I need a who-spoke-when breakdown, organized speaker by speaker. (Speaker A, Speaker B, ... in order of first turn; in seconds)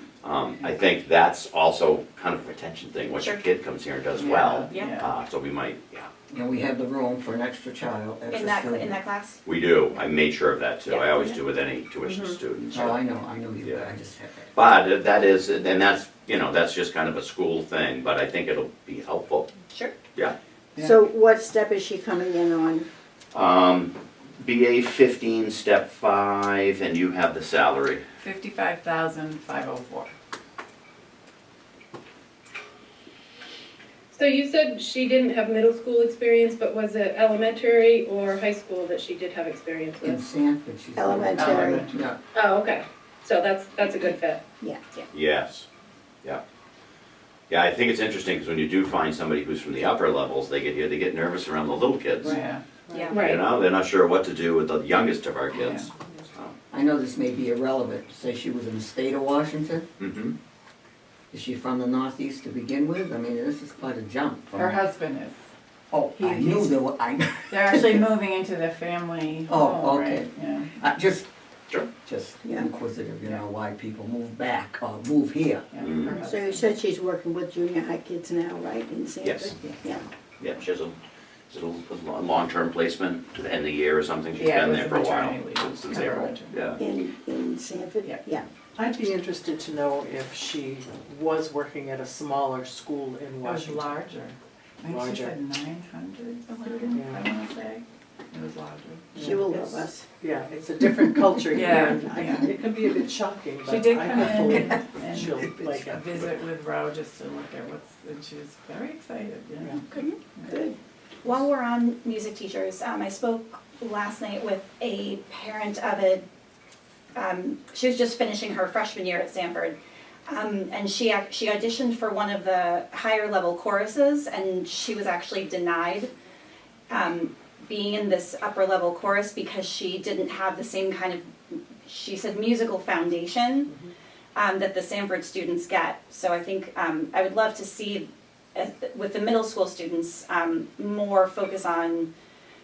Speaker A: 0.2-6.1, 9.4-13.0, 13.6-13.9, 14.5-19.5, 23.3-28.0, 45.1-45.6, 47.5-52.4, 53.2-56.5, 60.0-60.4, 75.8-76.2, 79.2-79.5, 80.4-81.0, 81.5-86.8
Speaker B: 4.1-5.1, 28.2-30.1, 41.3-42.0, 52.2-52.6, 55.5-55.9, 64.5-65.4, 66.2-66.8, 67.5-70.7, 75.7-76.7, 84.3-86.8, 93.4-99.8, 101.5-102.5, 103.6-110.6
Speaker C: 6.3-8.9, 12.7-14.5, 40.0-42.2, 56.7-59.9, 61.3-64.8, 65.9-68.0, 69.5-71.3, 72.0-75.7
Speaker D: 8.3-9.4, 10.9-11.4, 52.9-53.2, 96.5-97.0, 109.9-110.2, 111.2-116.2, 117.1-126.1, 126.9-133.7, 134.3-142.1
Speaker E: 20.8-22.9, 41.0-41.9, 44.6-45.0, 76.1-80.1, 86.8-88.5, 99.2-100.1, 110.5-110.8
Speaker F: 34.1-40.2, 42.3-44.4, 53.1-53.4
Speaker G: 52.9-53.3, 88.8-94.0, 94.8-95.3, 96.9-97.2, 100.2-106.2